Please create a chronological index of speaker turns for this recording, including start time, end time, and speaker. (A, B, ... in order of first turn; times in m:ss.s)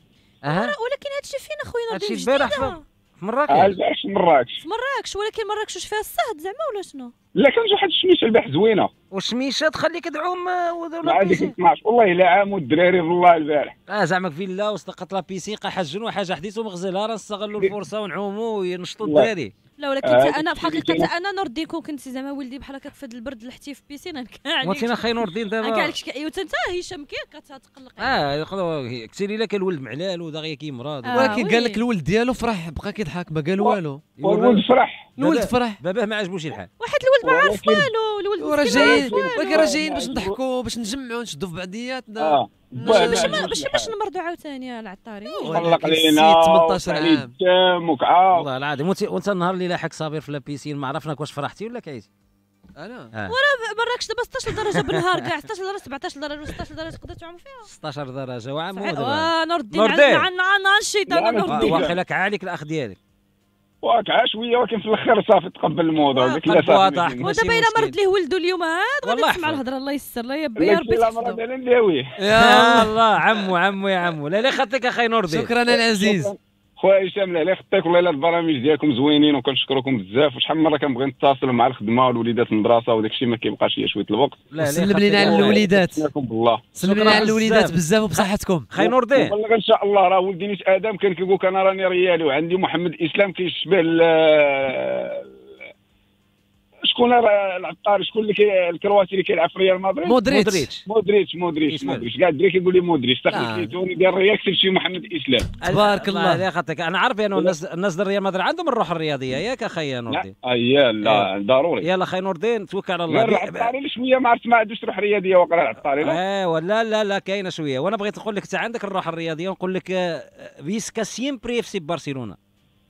0:00.5-0:00.7 A
0:00.5-0:02.8 B
0:01.9-0:03.8 A
0:03.5-0:04.6 C
0:04.6-0:07.1 B
0:07.4-0:08.9 C
0:09.1-0:11.6 A
0:11.0-0:13.7 C
0:13.9-0:19.5 A
0:19.0-0:19.3 C
0:19.8-0:25.0 B
0:20.0-0:21.1 C
0:24.6-0:26.0 A
0:25.6-0:28.2 B
0:28.0-0:31.4 A
0:31.0-0:31.8 B
0:31.2-0:34.0 D
0:33.6-0:35.1 C
0:34.2-0:34.6 A
0:35.2-0:35.8 D
0:35.2-0:36.7 A
0:36.8-0:40.0 B
0:37.2-0:37.9 C
0:38.4-0:43.4 D
0:38.7-0:40.4 C
0:42.2-0:43.9 C
0:42.8-0:45.8 B
0:45.4-0:47.4 D
0:45.5-0:48.5 C
0:48.3-0:52.1 A
0:52.8-0:53.1 D
0:53.3-0:57.7 B
0:57.7-1:00.3 A
0:58.7-1:01.9 B
1:01.1-1:02.0 C
1:01.5-1:03.0 A
1:03.8-1:07.3 C
1:06.1-1:08.0 A
1:07.2-1:11.4 B
1:09.0-1:09.6 A
1:10.6-1:12.1 C
1:12.2-1:13.0 D
1:12.3-1:15.5 A
1:15.3-1:16.3 D
1:15.7-1:24.5 C
1:24.5-1:25.6 A
1:24.6-1:26.0 D
1:25.2-1:26.7 C
1:26.8-1:28.7 D
1:26.8-1:29.3 A
1:28.8-1:35.3 C
1:36.8-1:40.2 C
1:40.1-1:40.7 D
1:40.3-1:40.8 A
1:40.9-1:45.5 C
1:41.7-1:42.0 A
1:43.3-1:43.7 D
1:45.6-1:50.3 A
1:45.7-1:46.4 D
1:50.1-1:51.9 C
1:51.8-1:53.7 A
1:53.1-1:56.2 C
1:56.0-2:02.4 A